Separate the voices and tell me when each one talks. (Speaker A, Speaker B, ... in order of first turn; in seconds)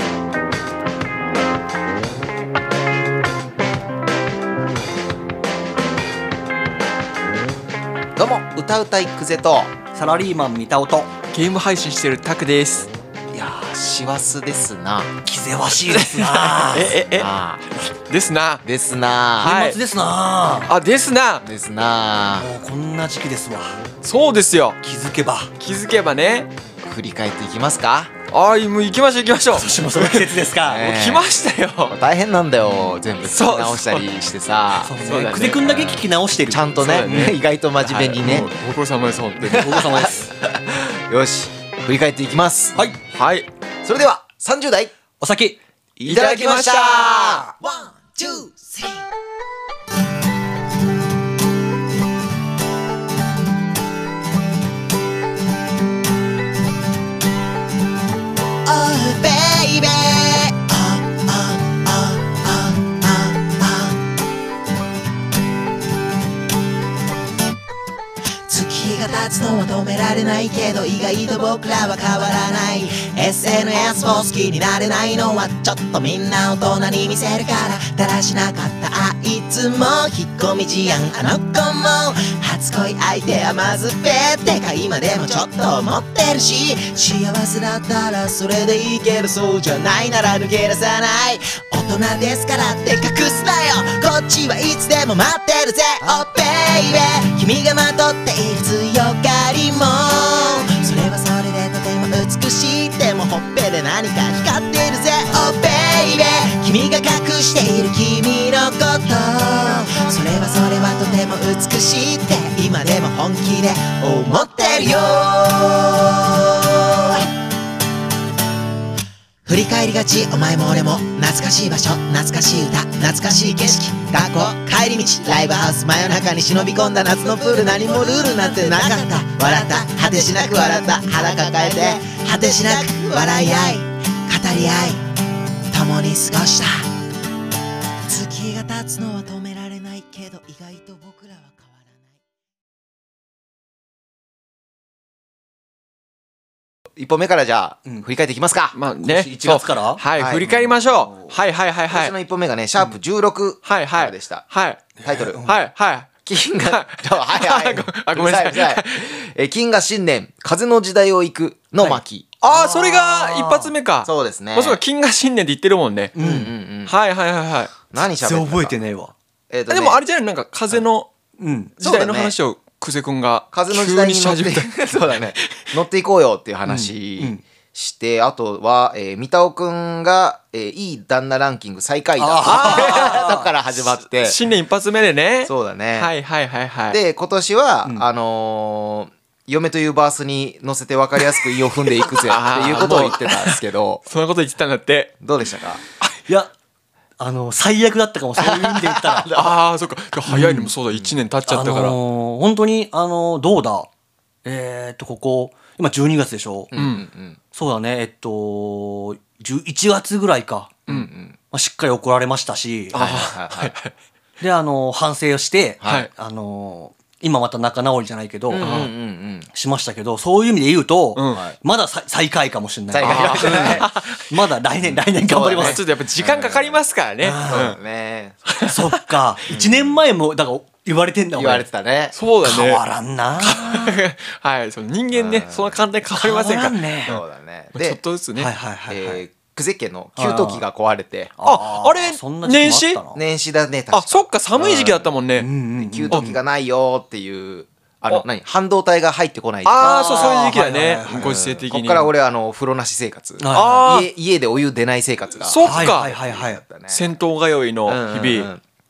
Speaker A: 8.2-9.7, 13.6-15.2, 17.1-17.7, 18.6-19.6, 21.4-22.5, 26.8-28.1, 30.6-31.3, 31.9-35.0, 36.5-38.5, 39.5-42.8, 43.8-44.9, 46.0-47.5, 147.0-148.8, 150.2-150.8, 151.9-154.5, 155.1-155.5, 156.3-162.3, 164.0-164.8, 166.2-166.9, 167.9-168.8, 169.5-170.0, 171.8-172.3, 173.5-184.4, 185.4-186.1, 186.9-194.0, 195.2-195.8, 198.4-199.5, 206.7-207.4, 210.9-211.4, 212.9-213.8, 215.8-216.1, 218.5-219.5, 222.9-223.9, 224.8-226.8, 227.4-228.6, 229.5-230.0, 231.3-232.2, 235.1-235.8, 237.1-238.0, 238.9-241.3, 243.1-245.1, 245.8-250.4, 251.2-257.1, 257.9-258.6
Speaker B: 9.9-11.1, 13.3-13.7, 15.2-17.0, 19.4-20.7, 22.4-23.8, 24.8-25.5, 29.5-30.9, 34.8-37.4, 39.5-40.3, 45.2-45.6, 149.0-150.1, 155.0-155.6, 161.8-163.7, 166.2-166.5, 168.2-169.1, 171.4-171.8, 176.7-177.4, 182.2-183.5, 196.0-196.5, 197.2-199.3, 200.3-200.7, 201.5-203.9, 204.4-206.7, 207.5-210.8, 211.5-213.0, 214.4-218.7, 219.5-225.8, 227.2-227.8, 228.7-231.7, 232.4-234.0, 236.2-237.2, 238.4-239.2, 240.2-240.6, 241.4-243.2, 245.4-246.4, 249.8-251.3, 253.4-253.9, 255.6-256.6
Speaker C: 11.3-12.9, 15.9-17.3, 18.1-18.6, 19.4-19.8, 20.7-21.4, 24.0-24.8, 25.6-26.5, 28.3-31.9, 33.2-34.1, 35.0-36.0, 36.8-39.9, 43.1-43.5, 46.0-47.5, 148.8-152.1, 153.7-154.9, 155.4-156.1, 156.6-159.1, 162.4-166.2, 166.9-167.7, 169.7-171.1, 171.8-175.1, 182.4-183.2, 184.1-187.0, 192.1-195.1, 199.3-202.0, 206.8-207.0, 212.9-213.9, 218.6-218.9, 221.2-221.4, 223.0-224.1, 225.3-227.8, 228.5-228.8, 232.2-232.8, 233.4-237.2, 237.7-238.5, 241.4-243.0, 243.9-245.5, 249.7-252.1, 253.5-254.1, 255.4-256.1, 256.9-258.5
Speaker D: 47.5-49.0, 58.6-64.0, 68.5-117.3, 119.5-135.1, 135.7-136.9, 138.0-141.7